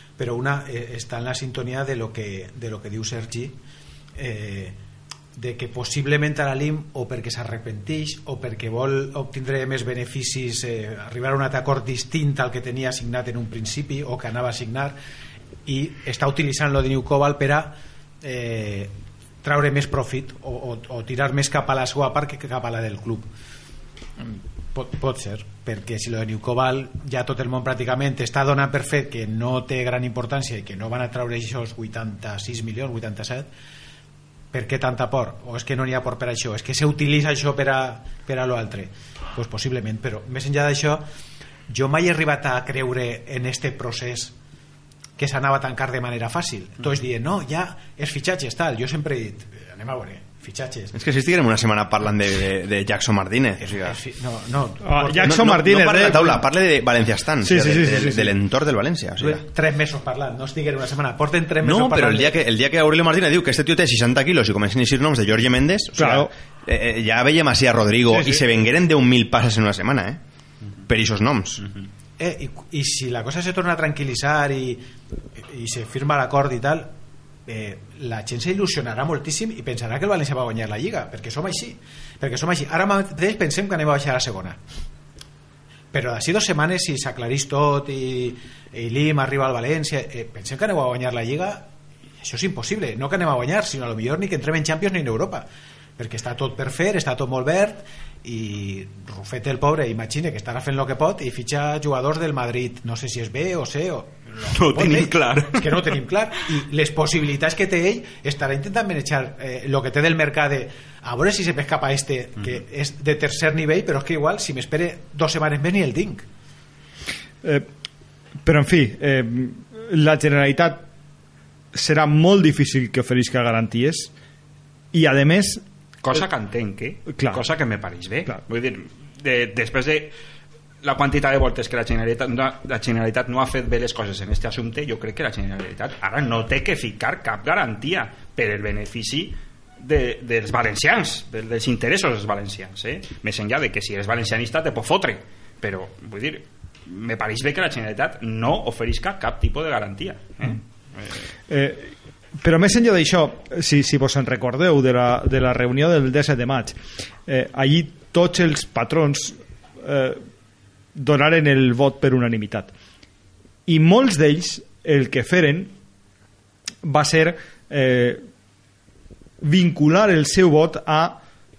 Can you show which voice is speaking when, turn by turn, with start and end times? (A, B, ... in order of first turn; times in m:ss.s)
0:00.2-0:03.6 A
0:04.2-0:04.8 A
0:05.4-0:15.0 A
0:15.6-0:18.9 A
0:19.4-0:23.2 A
0:24.2-0:33.5 A
0:34.5-0:41.0 A
0:41.7-0:44.3 A
0:45.2-0:50.9 A
0:50.9-0:54.0 B
0:53.6-0:55.5 A
0:54.8-0:56.4 C
0:55.2-0:59.4 B
0:57.4-0:58.3 C
0:59.2-1:02.3 A
1:01.6-1:10.2 B
1:06.0-1:06.3 C
1:08.1-1:08.4 C
1:10.9-1:11.6 B
1:12.2-1:16.9 A
1:17.5-1:24.6 A
1:25.9-1:31.7 A
1:32.2-1:35.4 A
1:36.0-1:56.2 A
1:44.5-1:46.0 D
1:58.4-2:00.8 C
2:01.7-2:04.1 C
2:04.9-2:05.6 C
2:06.0-2:10.1 D
2:07.1-2:07.4 C
2:10.8-2:31.3 D
2:31.5-2:40.2 C
2:40.9-2:42.7 C
2:43.6-2:45.7 C
2:46.8-2:48.2 C
2:49.4-2:51.2 C